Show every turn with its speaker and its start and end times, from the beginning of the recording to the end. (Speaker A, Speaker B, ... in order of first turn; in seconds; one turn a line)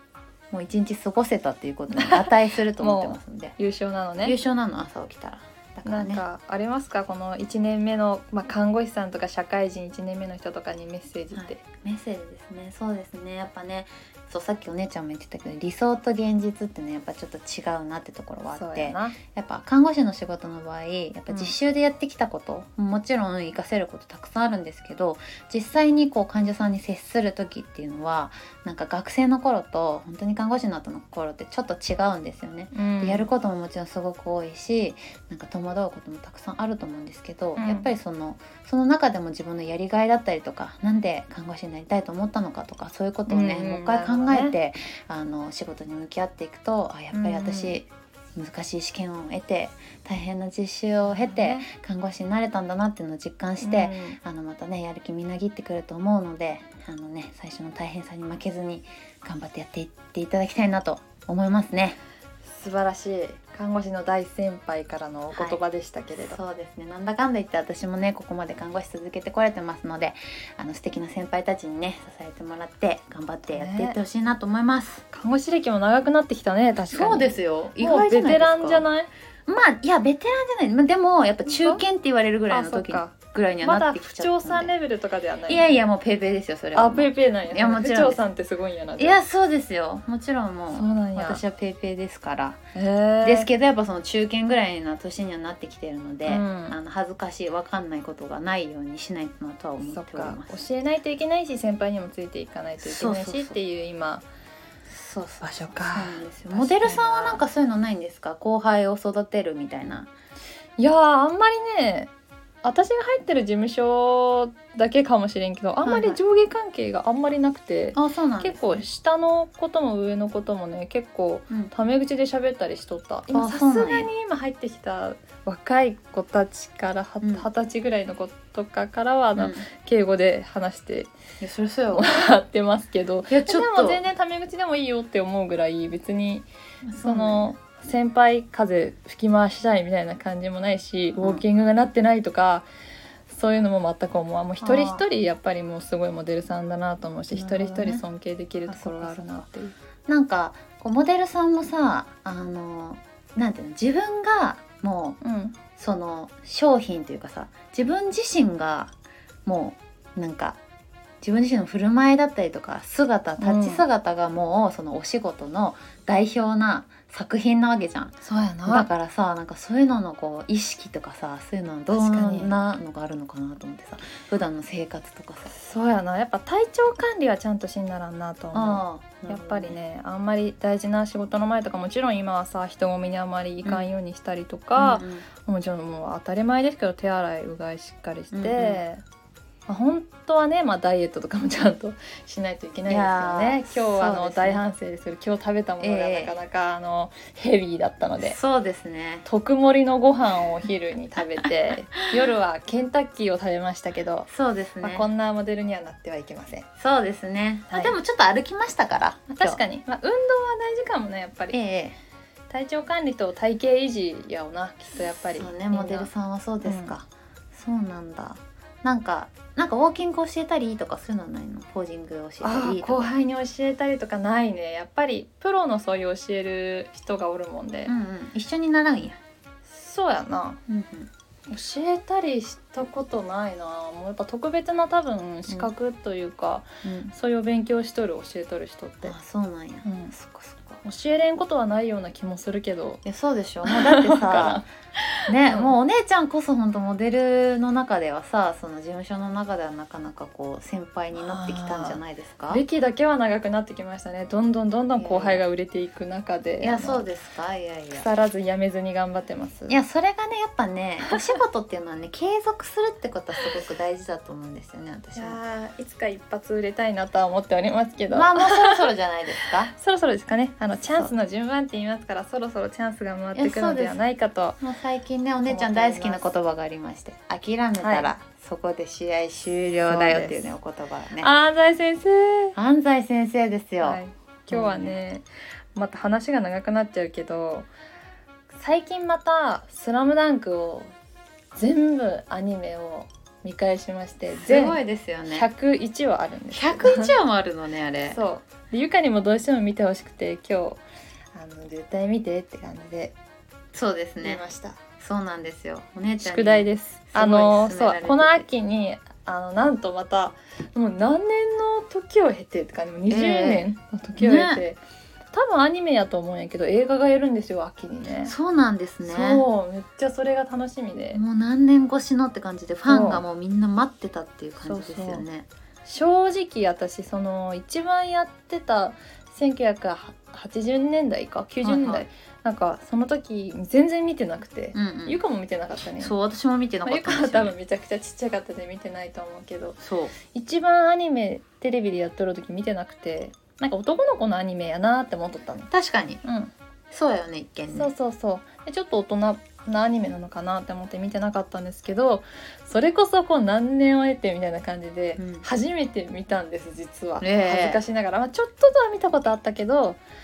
Speaker A: 0.5-3.6
Speaker B: 1.9-2.3
Speaker B: 2.8-4.3
Speaker A: 4.2-6.2
Speaker B: 5.8-11.6
Speaker A: 11.3-62.0
Speaker B: 18.5-19.2
Speaker B: 21.3-21.5
Speaker B: 32.7-33.3
Speaker B: 37.6-37.9
Speaker B: 43.3-44.5
Speaker B: 47.1-47.8
Speaker B: 51.0-51.7
Speaker B: 53.6-54.2
Speaker B: 62.4-66.4
Speaker A: 65.3-65.6
Speaker A: 66.2-75.0
Speaker B: 73.5-74.0
Speaker B: 75.1-79.1
Speaker A: 76.9-78.9
Speaker A: 79.5-84.7
Speaker B: 81.5-81.8
Speaker B: 82.5-85.7
Speaker A: 85.5-88.2
Speaker B: 86.7-89.2
Speaker A: 89.0-92.6
Speaker B: 90.7-91.4
Speaker B: 92.7-93.5
Speaker A: 93.2-100.7
Speaker B: 96.3-96.8
Speaker B: 99.8-104.2
Speaker A: 102.8-103.6
Speaker A: 104.9-110.1
Speaker B: 105.4-107.4
Speaker B: 110.8-112.1
Speaker B: 112.6-131.1
Speaker A: 115.8-116.2
Speaker A: 117.9-118.8
Speaker A: 123.3-124.1
Speaker A: 127.2-127.5
Speaker A: 129.3-129.7
Speaker A: 131.4-132.2
Speaker B: 131.9-136.5
Speaker A: 133.3-134.0
Speaker A: 136.8-137.5
Speaker B: 137.0-142.7
Speaker A: 141.2-141.4
Speaker B: 143.3-149.7
Speaker A: 144.6-145.0
Speaker A: 147.3-148.0
Speaker A: 148.7-149.5
Speaker A: 150.1-155.2
Speaker B: 155.2-155.6
Speaker A: 155.8-158.9
Speaker A: 159.4-160.6
Speaker A: 161.2-168.1
Speaker B: 163.4-163.8
Speaker B: 168.2-168.9
Speaker A: 168.7-175.5
Speaker B: 171.9-172.6
Speaker B: 175.5-189.0
Speaker A: 178.5-179.8
Speaker A: 184.7-185.3
Speaker A: 188.3-188.8
Speaker B: 189.7-198.4
Speaker A: 192.9-194.6
Speaker A: 195.8-196.3
Speaker A: 198.2-199.2
Speaker B: 199.2-204.3
Speaker A: 204.3-205.1
Speaker B: 204.8-206.7
Speaker A: 206.8-209.6
Speaker B: 207.7-207.9
Speaker B: 209.3-211.6
Speaker A: 211.5-212.0
Speaker B: 212.5-216.1
Speaker A: 215.4-223.1
Speaker B: 216.6-217.0
Speaker B: 222.4-227.9
Speaker A: 227.8-229.2
Speaker B: 229.7-230.6
Speaker A: 230.7-231.1
Speaker B: 231.5-239.2
Speaker A: 236.8-237.1
Speaker A: 239.0-240.8
Speaker B: 239.8-240.1
Speaker B: 240.8-243.0
Speaker A: 243.0-244.7
Speaker B: 243.6-244.6
Speaker A: 245.3-252.6
Speaker B: 245.4-245.7
Speaker B: 251.1-257.1
Speaker A: 255.0-255.4
Speaker A: 256.6-258.1
Speaker B: 257.9-259.8
Speaker A: 259.7-265.4
Speaker B: 261.1-261.3
Speaker B: 265.1-268.9
Speaker A: 268.1-269.7
Speaker B: 269.6-274.6
Speaker A: 273.3-274.0
Speaker A: 274.6-281.3
Speaker B: 275.4-276.3
Speaker B: 277.8-278.1
Speaker B: 279.7-280.5
Speaker B: 281.2-282.6
Speaker A: 282.5-284.9
Speaker B: 283.8-287.7
Speaker B: 288.5-290.9
Speaker B: 291.5-297.1
Speaker A: 294.3-295.5
Speaker A: 296.5-298.2
Speaker B: 298.1-300.8
Speaker B: 301.3-303.1
Speaker A: 303.7-304.4
Speaker B: 304.2-304.8
Speaker A: 305.0-308.4
Speaker B: 306.2-314.8
Speaker A: 313.1-313.7
Speaker A: 314.2-314.6
Speaker B: 315.3-318.3
Speaker A: 318.2-319.4
Speaker B: 319.0-321.2
Speaker A: 321.1-325.5
Speaker B: 322.9-323.2
Speaker B: 324.6-325.2
Speaker B: 325.9-336.1
Speaker A: 331.6-332.1
Speaker A: 334.7-335.2
Speaker A: 336.0-337.5
Speaker B: 336.8-345.7
Speaker A: 339.8-340.1
Speaker A: 345.7-346.2
Speaker B: 346.2-346.5
Speaker A: 346.9-347.9
Speaker B: 347.7-360.0
Speaker A: 355.2-355.4
Speaker A: 357.2-357.8